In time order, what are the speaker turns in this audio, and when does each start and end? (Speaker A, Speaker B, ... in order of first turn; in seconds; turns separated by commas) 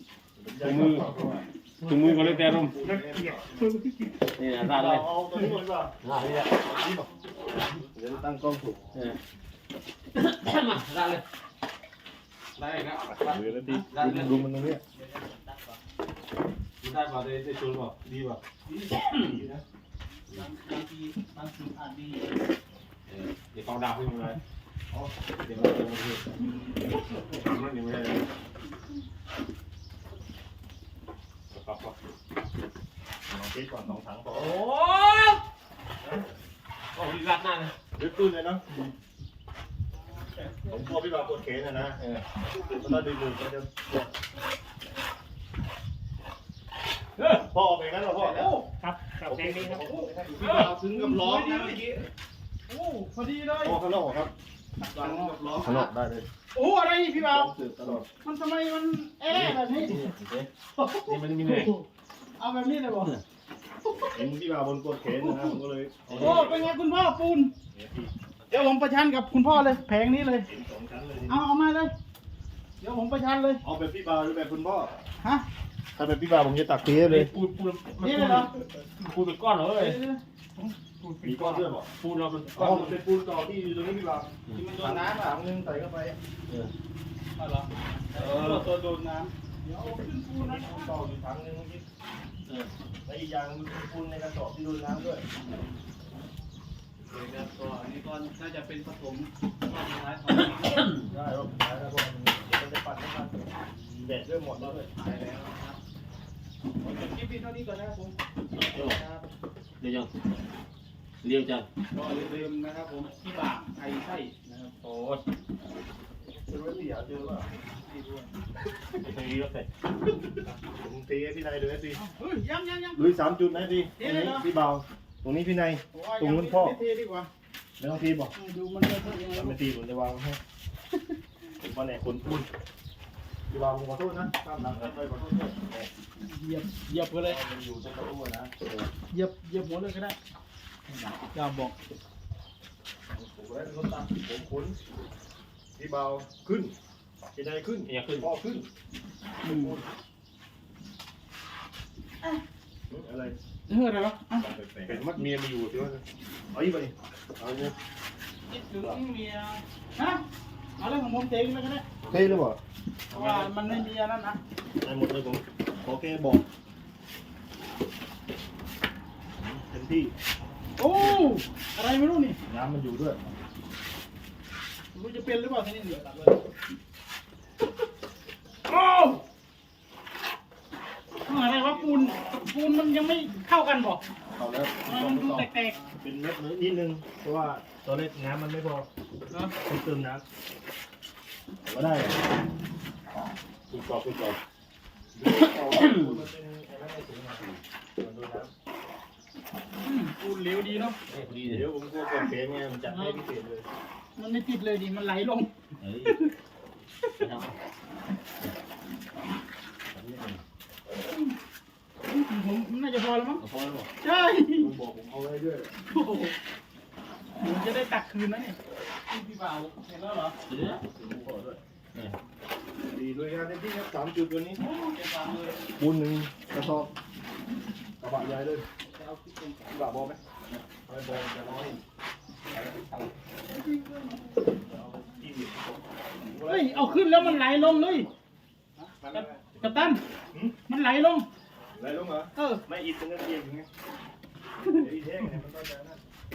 Speaker A: 0.3-3.8, Speaker B: 0.6-1.1, Speaker B: 1.8-2.8, Speaker B: 4.3-5.1, Speaker A: 4.6-6.0, Speaker B: 6.0-6.7, Speaker A: 6.6-7.1, Speaker A: 7.9-8.8, Speaker B: 8.9-9.2, Speaker B: 10.1-11.2, Speaker B: 12.6-14.4, Speaker A: 13.1-14.8, Speaker C: 14.9-15.8, Speaker B: 16.8-19.3, Speaker A: 19.2-19.6, Speaker C: 20.3-22.3, Speaker B: 23.1-24.4, Speaker B: 25.4-26.3, Speaker B: 27.3-28.3, Speaker B: 31.5-31.9, Speaker A: 33.3-34.5, Speaker B: 34.3-35.4, Speaker B: 36.9-37.7, Speaker A: 37.9-38.6, Speaker C: 40.2-41.1, Speaker A: 40.7-44.1, Speaker B: 42.0-42.2, Speaker B: 47.2-47.5, Speaker A: 47.4-48.5, Speaker C: 48.1-48.7, Speaker B: 48.8-49.8, Speaker A: 49.2-51.8, Speaker C: 49.5-51.9, Speaker B: 50.4-50.8, Speaker C: 52.7-53.8, Speaker A: 53.6-54.3, Speaker C: 54.8-55.7, Speaker A: 54.9-56.2, Speaker B: 55.6-55.9, Speaker C: 56.5-57.5, Speaker A: 57.1-58.0, Speaker C: 58.2-60.0, Speaker B: 59.3-60.1, Speaker A: 59.4-60.5, Speaker C: 60.8-61.9, Speaker B: 60.9-61.7, Speaker C: 62.4-63.1, Speaker C: 63.8-64.2, Speaker A: 64.1-66.7, Speaker C: 65.1-65.6, Speaker B: 66.1-66.6, Speaker C: 66.1-67.5, Speaker A: 67.7-68.1, Speaker C: 68.5-70.5, Speaker A: 70.5-71.4, Speaker C: 71.3-71.9, Speaker C: 72.8-73.6, Speaker A: 73.6-74.9, Speaker A: 75.9-77.3, Speaker B: 76.9-80.0, Speaker C: 78.0-78.5, Speaker C: 79.7-81.2, Speaker B: 81.2-83.0, Speaker A: 81.2-81.9, Speaker A: 82.5-86.2, Speaker C: 84.5-85.3, Speaker B: 86.5-86.7, Speaker C: 87.4-90.9, Speaker B: 88.1-88.7, Speaker A: 90.4-91.8, Speaker B: 92.5-92.7, Speaker A: 93.0-95.2, Speaker C: 97.0-100.9, Speaker A: 101.1-103.5, Speaker C: 103.7-105.8, Speaker A: 104.0-104.9, Speaker C: 106.8-109.2, Speaker B: 108.6-109.0, Speaker B: 109.8-110.1, Speaker B: 111.2-111.7, Speaker C: 111.9-114.7, Speaker B: 114.8-115.2, Speaker A: 116.2-117.5, Speaker C: 117.4-118.3, Speaker B: 118.9-119.7, Speaker A: 120.7-122.0, Speaker C: 121.9-123.0, Speaker A: 122.9-126.8, Speaker C: 124.0-124.5, Speaker C: 125.9-127.3, Speaker A: 127.8-128.3, Speaker C: 128.3-129.6, Speaker A: 129.3-130.4, Speaker A: 131.6-132.5, Speaker A: 133.5-135.8, Speaker C: 136.2-137.4, Speaker A: 137.2-138.5, Speaker C: 139.1-140.1, Speaker C: 141.3-141.7, Speaker A: 143.1-144.8, Speaker A: 145.8-146.7, Speaker A: 147.3-148.7, Speaker B: 147.9-148.3, Speaker C: 149.4-149.8, Speaker A: 149.4-149.8, Speaker A: 152.9-153.4, Speaker C: 153.7-154.5, Speaker A: 154.4-155.1, Speaker B: 154.8-156.0, Speaker A: 156.5-157.7, Speaker C: 158.5-160.2, Speaker C: 160.8-161.8, Speaker B: 162.0-162.4, Speaker A: 162.1-162.6, Speaker C: 163.1-164.4, Speaker B: 163.1-163.5, Speaker A: 164.8-166.4, Speaker A: 169.3-170.1, Speaker C: 170.8-172.4, Speaker A: 172.5-173.2, Speaker C: 174.9-176.3, Speaker C: 178.7-179.2, Speaker C: 181.2-184.0, Speaker A: 184.3-185.4, Speaker C: 184.8-185.8, Speaker B: 185.0-185.4, Speaker A: 186.0-188.9, Speaker A: 189.6-190.2, Speaker A: 191.6-192.2, Speaker B: 193.7-194.4, Speaker A: 195.1-198.5, Speaker B: 195.7-196.2, Speaker C: 199.8-201.0, Speaker B: 201.1-201.7, Speaker A: 201.4-203.7, Speaker C: 202.9-203.2, Speaker C: 204.2-205.5, Speaker B: 205.8-206.2, Speaker B: 207.2-207.6, Speaker B: 209.9-210.4, Speaker C: 212.1-213.4, Speaker B: 213.4-213.9, Speaker C: 214.0-214.7, Speaker A: 214.6-215.7, Speaker C: 215.8-216.3, Speaker C: 217.4-218.6, Speaker C: 219.1-220.3, Speaker B: 220.5-220.8, Speaker A: 220.9-221.6, Speaker A: 222.9-224.6, Speaker C: 224.6-225.6, Speaker A: 225.8-226.9, Speaker A: 228.0-228.7, Speaker C: 228.9-229.9, Speaker A: 229.7-231.8, Speaker B: 230.9-231.8, Speaker B: 232.5-233.1, Speaker C: 233.5-234.3, Speaker A: 234.5-238.1, Speaker C: 236.4-238.1, Speaker C: 238.8-240.0, Speaker A: 239.0-240.6, Speaker C: 240.7-241.3, Speaker A: 241.7-243.7, Speaker C: 242.3-242.6, Speaker A: 244.6-246.0